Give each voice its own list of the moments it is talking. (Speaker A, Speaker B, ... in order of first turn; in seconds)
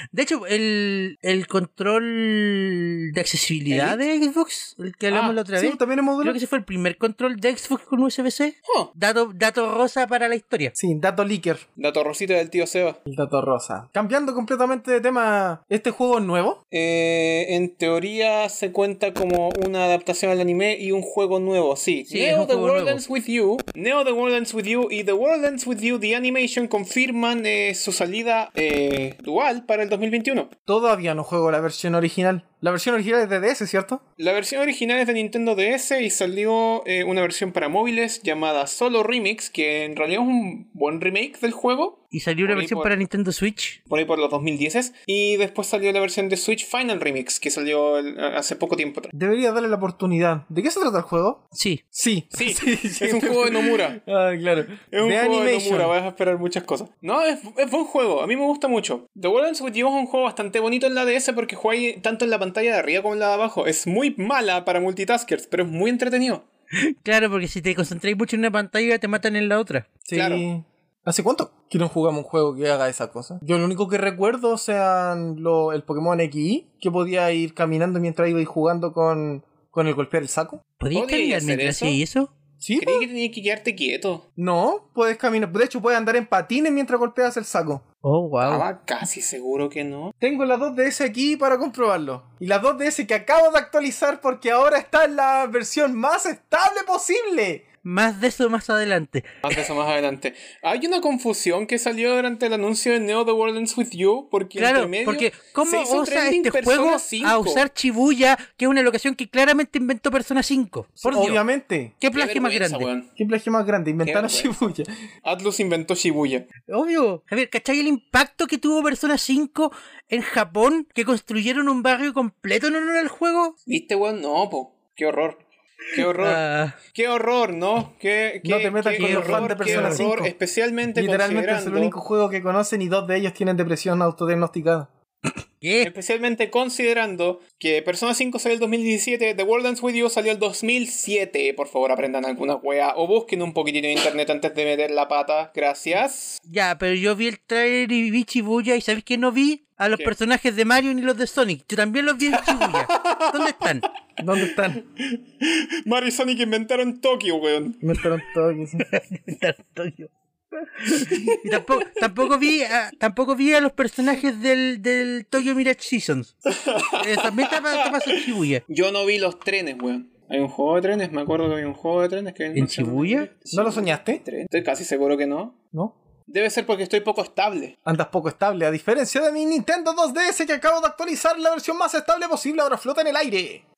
Speaker A: 0.1-10.7, 22.1-23.0, 42.1-43.8, 51.5-51.8, 66.7-69.9, 80.8-82.3, 88.0-88.6, 97.8-99.6, 104.6-111.4, 112.0-112.9, 116.7-123.5, 126.0-126.8, 129.0-130.1, 135.6-135.9, 146.5-153.8, 158.8-166.3, 166.9-168.6, 172.5-173.3
Speaker B: 3.7-4.0, 5.1-5.4, 8.7-8.9, 11.8-13.0, 16.7-30.5, 34.2-42.9, 43.9-49.1, 52.3-54.0, 54.9-66.5, 70.1-70.5, 80.9-82.0, 82.8-84.2, 88.4-90.1, 99.4-107.6, 112.1-113.1, 114.0-114.5, 115.2-116.5, 123.7-126.4, 126.9-131.9, 135.8-146.4, 152.3-153.7, 154.7-158.0, 161.0-161.8, 166.5-175.6, 176.3-177.8
Speaker C: 5.5-6.4, 10.8-11.6, 13.1-16.6, 30.7-34.0, 49.1-55.9, 70.0-80.6, 82.6-83.1, 84.4-87.8, 90.2-97.6, 111.0-111.9, 113.2-114.9, 128.4-130.3, 130.9-134.9, 154.2-154.8, 157.8-158.9, 173.5-174.2, 177.8-183.6